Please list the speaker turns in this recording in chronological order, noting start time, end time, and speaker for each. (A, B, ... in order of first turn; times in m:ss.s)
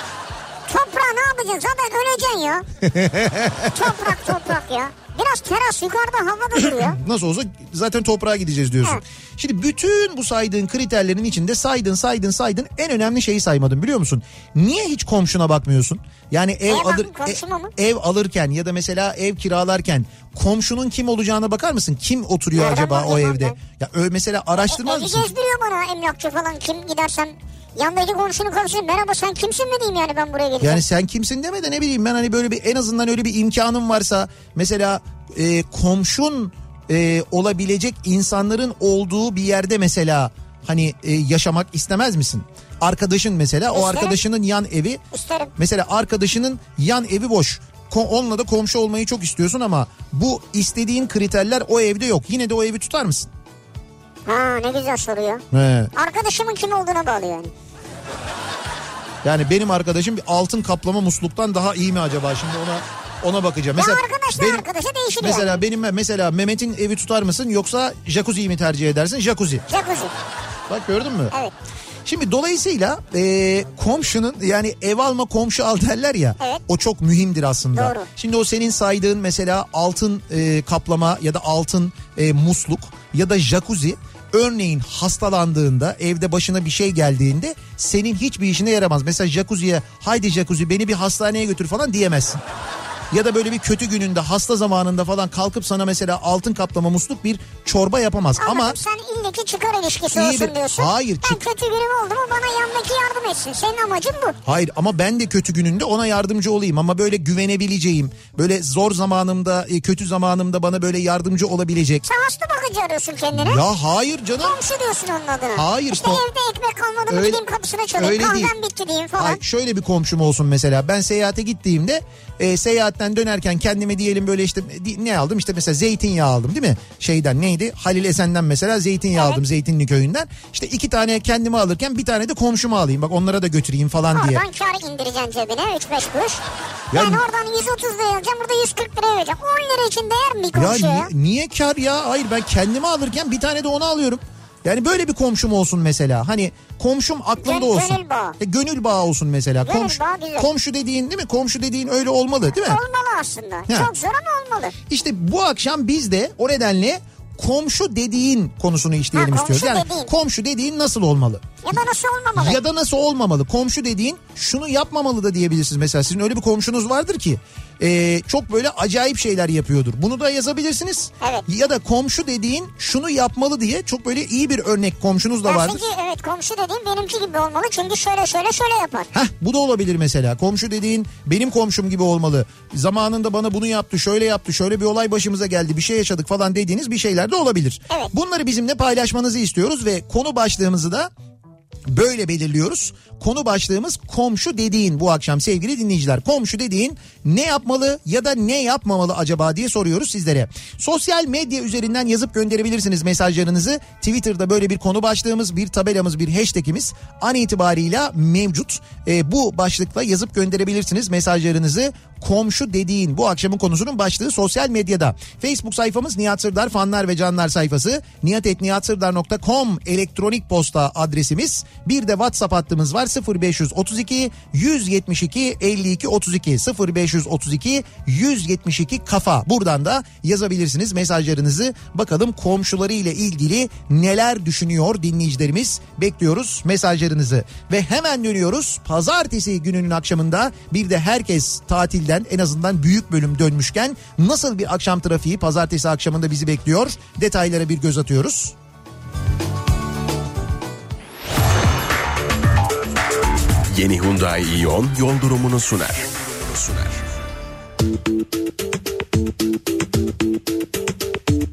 0:00.7-0:02.7 A
0:02.8-0:04.3 B
0:03.7-0:07.0 A
0:06.6-0:25.3 B
0:16.7-0:17.7 A
0:22.6-0:23.6 A
0:24.7-0:30.8 A
0:30.6-0:45.0 B
0:43.7-0:44.2 A
0:45.1-0:45.5 A
0:45.6-0:53.3 B
0:54.3-0:55.4 A
0:55.5-0:55.9 B
0:55.9-0:57.5 A
0:59.2-1:04.6 B
1:03.8-1:05.6 A
1:05.2-1:09.6 B
1:09.7-1:10.1 A
1:10.7-1:11.3 B
1:12.1-1:32.4 B
1:17.7-1:18.1 A
1:33.1-1:38.8 B
1:38.4-1:44.4 A
1:40.1-1:41.4 B
1:44.5-1:52.0 B
1:52.0-1:53.6 A
1:53.3-1:54.6 B
1:54.4-1:59.4 A
1:55.6-1:56.2 B
1:57.1-1:57.4 B
1:58.0-1:58.5 B
1:59.2-2:14.4 B
2:09.2-2:09.4 A
2:14.1-2:21.1 A
2:16.9-2:17.2 B
2:20.6-2:32.8 B
2:27.4-2:28.4 A
2:29.6-2:30.5 A
2:32.5-2:34.8 A
2:34.9-2:41.5 B
2:39.1-2:40.1 A
2:41.6-2:42.6 A
2:42.4-2:55.8 B
2:55.5-2:59.1 A
2:59.1-3:11.1 B
3:11.9-4:08.6 B
4:13.7-4:17.0 C